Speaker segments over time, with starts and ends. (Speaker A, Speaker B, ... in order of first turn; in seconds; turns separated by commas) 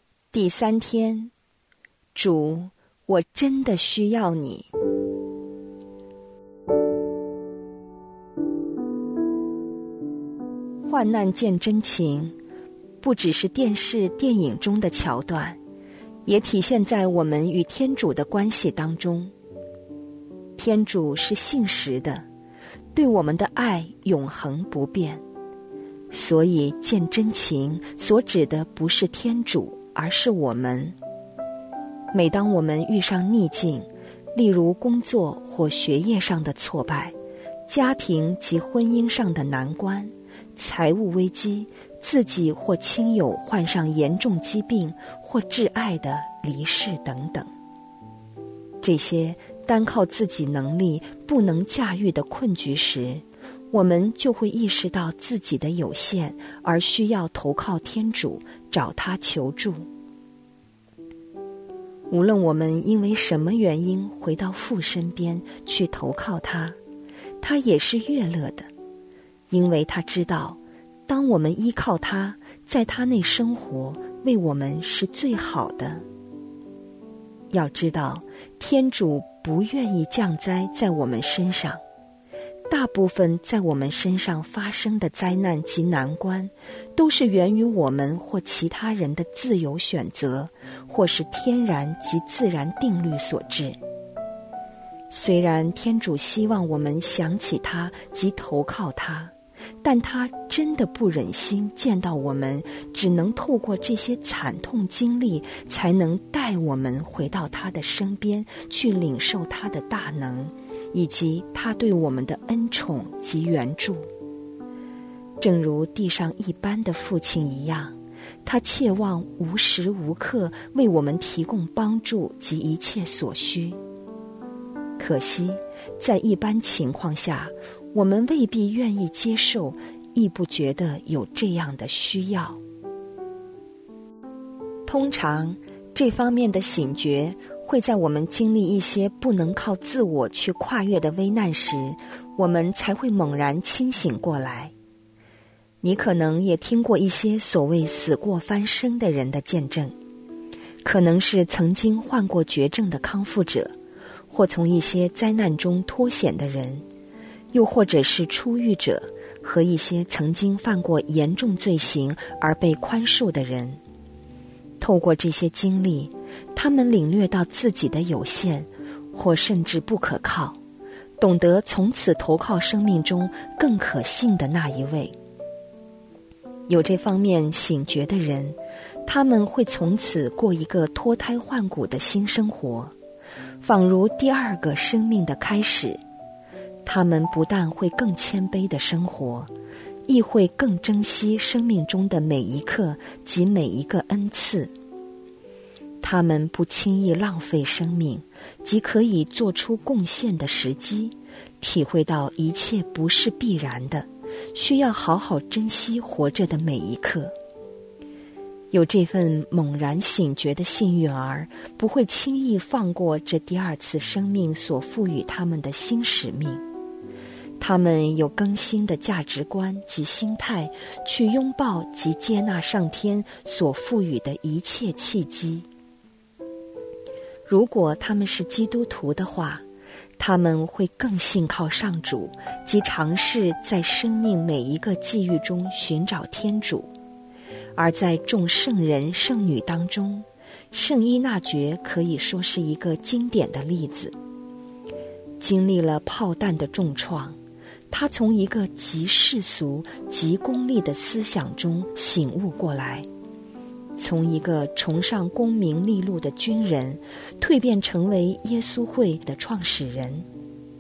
Speaker A: 0.3-1.3, Speaker A: 2.1-4.7, Speaker A: 10.8-12.4, Speaker A: 13.0-15.6, Speaker A: 16.3-19.3, Speaker A: 20.6-22.2, Speaker A: 22.9-25.2, Speaker A: 26.1-30.9, Speaker A: 32.1-37.1, Speaker A: 37.7-47.5, Speaker A: 48.8-59.9, Speaker A: 62.1-66.8, Speaker A: 67.4-68.7, Speaker A: 69.5-76.0, Speaker A: 77.5-81.8, Speaker A: 82.7-93.8, Speaker A: 95.1-114.1, Speaker A: 115.4-123.8, Speaker A: 125.0-132.6, Speaker A: 134.9-144.7, Speaker A: 145.8-150.0, Speaker A: 150.8-153.7, Speaker A: 154.3-156.8, Speaker A: 157.5-163.8, Speaker A: 164.8-170.6, Speaker A: 171.2-175.2, Speaker A: 176.7-182.9, Speaker A: 183.6-186.0, Speaker A: 186.8-189.5, Speaker A: 190.1-194.7, Speaker A: 196.0-207.3, Speaker A: 208.7-216.6, Speaker A: 217.6-225.7, Speaker A: 227.5-229.6, Speaker A: 230.2-236.9, Speaker A: 237.8-244.1, Speaker A: 245.4-247.4, Speaker A: 247.9-253.1, Speaker A: 254.0-260.3